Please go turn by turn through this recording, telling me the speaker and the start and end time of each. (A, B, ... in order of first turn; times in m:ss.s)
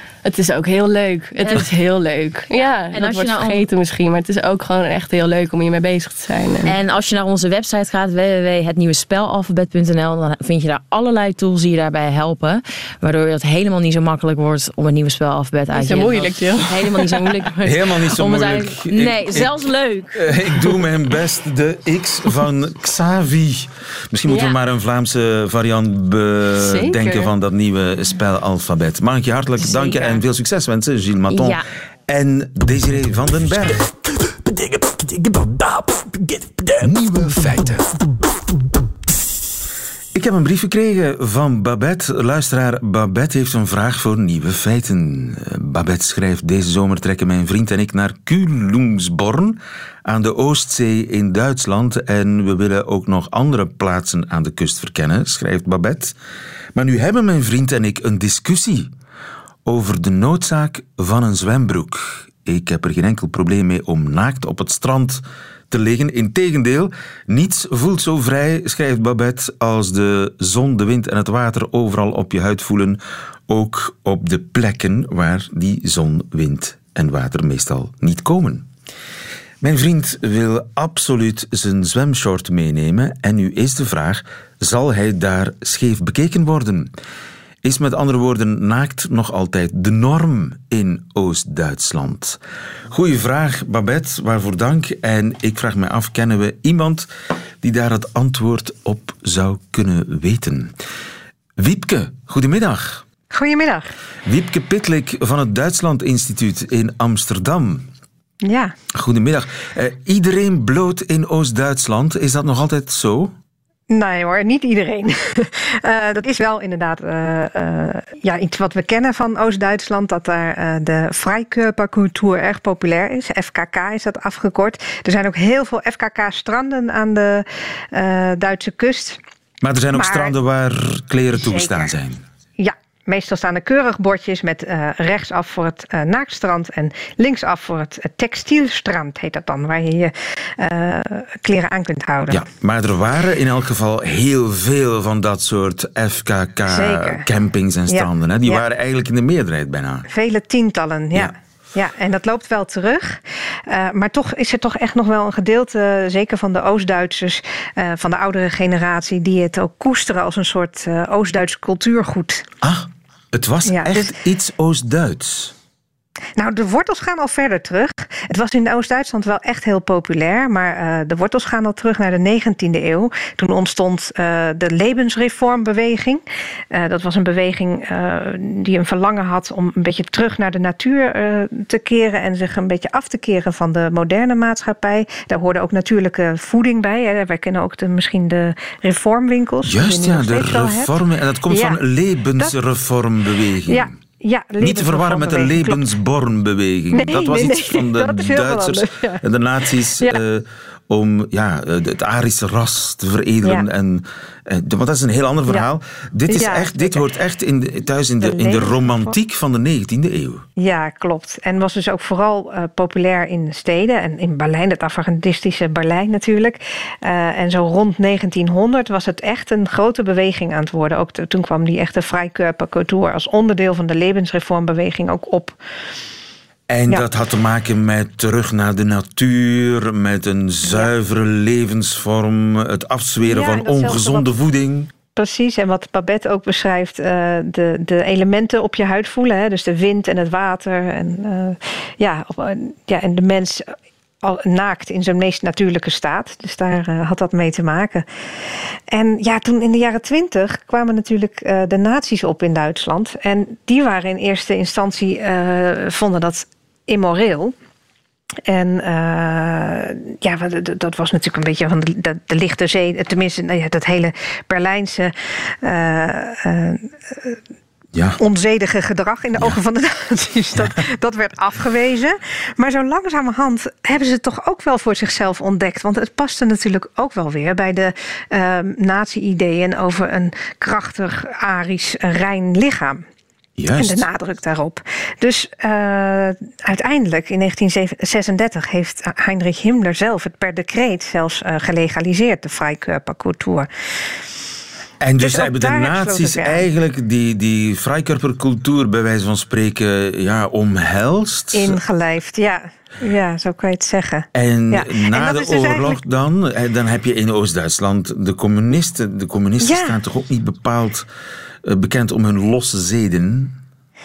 0:00.2-0:06.8 A
0:01.4-0:01.7 B
0:02.9-0:03.6 B
0:06.6-0:20.7 B
0:15.8-0:17.5 A
0:17.6-0:33.8 C
0:24.3-0:24.6 B
0:26.5-0:27.3 A
0:29.6-0:30.2 B
0:31.3-0:31.6 B
0:34.2-0:37.9 D
0:40.1-0:56.1 C
0:56.8-0:58.9 C
0:59.6-1:18.6 C
1:19.6-1:26.9 C
1:27.6-1:32.4 C
1:32.9-1:37.1 C
1:37.6-1:40.7 C
1:41.6-1:43.0 C
1:43.3-1:43.9 E
1:44.2-1:47.9 C
1:48.4-1:48.7 E
1:48.9-1:53.3 C
1:53.9-2:09.2 E
2:09.6-2:12.2 C
2:09.9-2:10.3 E
2:11.4-2:11.9 E
2:12.6-2:22.4 E
2:22.3-2:30.1 C
2:26.7-2:27.3 E
2:27.9-2:28.6 E
2:30.1-2:42.4 E
2:42.6-2:45.5 C
2:43.7-2:44.1 E
2:46.4-3:10.9 E
3:09.6-3:13.9 C
3:11.5-3:11.8 E
3:13.7-3:15.9 E
3:14.6-3:30.4 C
3:16.9-3:19.2 E
3:26.3-3:27.1 E
3:28.2-3:29.2 E
3:30.6-3:45.6 E
3:46.7-3:54.9 C
3:50.6-3:50.9 E
3:53.2-3:54.3 E
3:55.1-4:03.6 E
4:04.2-4:08.1 E
4:08.9-4:17.5 E
4:18.5-4:27.4 E
4:27.9-4:28.2 C
4:28.2-4:43.0 E
4:43.6-4:44.1 C
4:43.8-4:53.7 E
4:55.0-5:01.8 C
4:55.2-4:56.7 E
5:01.5-5:06.0 E
5:04.3-5:11.1 C
5:09.6-5:10.0 E
5:11.6-5:13.6 C